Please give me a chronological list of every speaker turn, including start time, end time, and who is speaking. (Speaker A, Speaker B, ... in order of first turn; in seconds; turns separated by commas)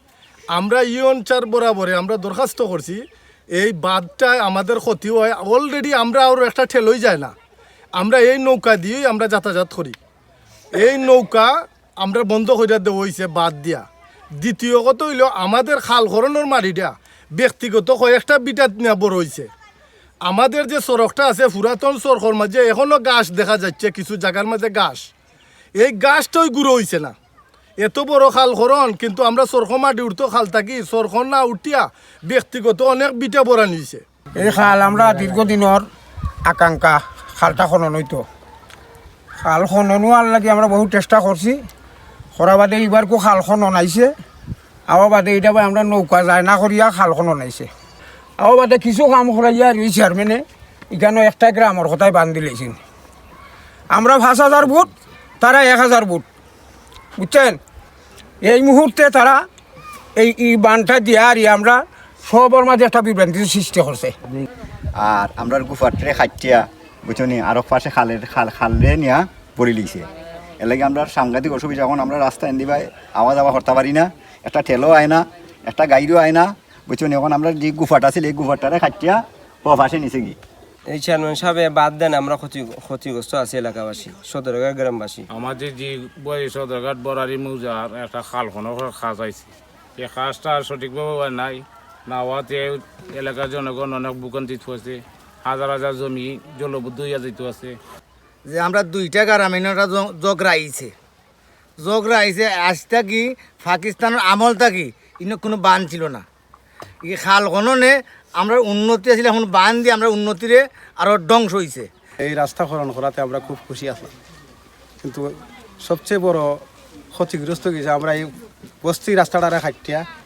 Speaker A: 0.5-7.3, Speaker A: 7.9-10.0, Speaker A: 10.7-13.8, Speaker A: 14.4-19.5, Speaker A: 20.2-25.1, Speaker A: 25.8-27.1, Speaker A: 27.8-34.0, Speaker B: 34.4-35.9, Speaker B: 36.4-38.2, Speaker B: 39.4-41.6, Speaker B: 42.3-44.1, Speaker B: 44.9-47.7, Speaker B: 48.4-52.8, Speaker B: 53.9-54.9, Speaker B: 55.4-56.2, Speaker B: 57.2-57.6, Speaker B: 58.4-59.5, Speaker B: 60.1-64.1, Speaker C: 65.1-66.5, Speaker C: 67.1-70.0, Speaker C: 70.6-73.8, Speaker C: 74.5-75.1, Speaker C: 75.7-76.3, Speaker C: 76.9-79.0, Speaker C: 79.7-80.3, Speaker D: 80.9-85.2, Speaker E: 85.3-97.8, Speaker F: 98.5-100.9, Speaker F: 101.8-106.2, Speaker F: 107.0-111.9, Speaker G: 112.2-114.1, Speaker G: 115.0-116.6, Speaker G: 117.1-118.3, Speaker G: 118.8-120.1